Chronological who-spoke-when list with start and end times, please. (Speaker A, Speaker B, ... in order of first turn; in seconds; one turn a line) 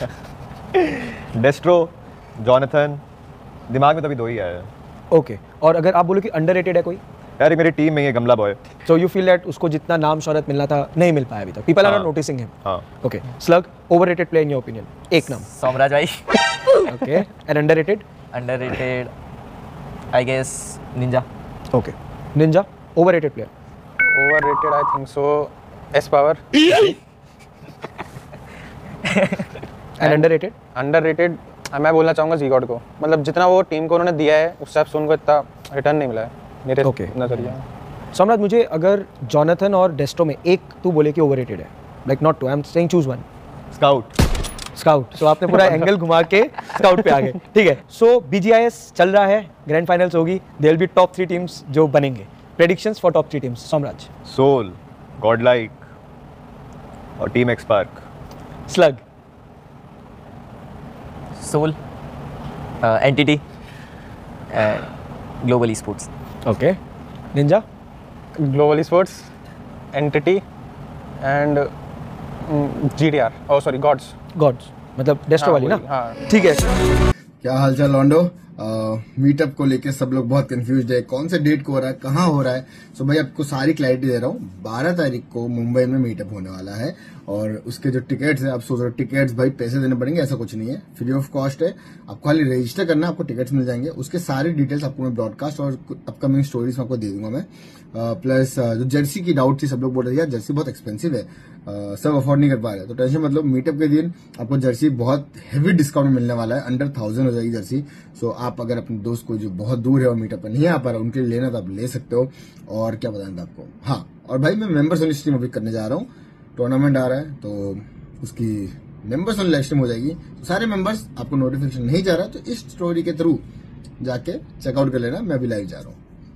Speaker A: 0.9-3.0
Speaker A: 3.7-4.7
Speaker B: 5.1-7.0
Speaker A: 7.4-8.6
Speaker B: 8.9-15.5
Speaker A: 11.8-12.1
Speaker C: 15.4-16.8
Speaker B: 16.8-18.1
Speaker C: 18.3-19.1
Speaker C: 20.1-21.3
Speaker B: 21.7-23.5
Speaker D: 24.0-26.9
Speaker C: 29.1-29.4
Speaker B: 30.0-30.6
Speaker D: 30.0-37.6
Speaker B: 36.8-37.1
Speaker B: 38.1-43.2
Speaker A: 43.7-44.1
Speaker B: 44.8-54.1
Speaker A: 54.3-55.8
Speaker A: 57.2-58.0
Speaker B: 58.7-59.0
Speaker C: 61.4-61.8
Speaker C: 62.8-63.4
Speaker C: 64.5-64.9
Speaker C: 65.4-66.1
Speaker B: 66.5-66.8
Speaker B: 67.3-67.7
Speaker D: 68.4-69.3
Speaker D: 69.9-70.4
Speaker D: 71.2-71.7
Speaker D: 72.5-74.1
Speaker B: 74.4-76.7
Speaker D: 75.4-76.2
Speaker E: 77.4-123.5
Speaker E: 124.0-126.0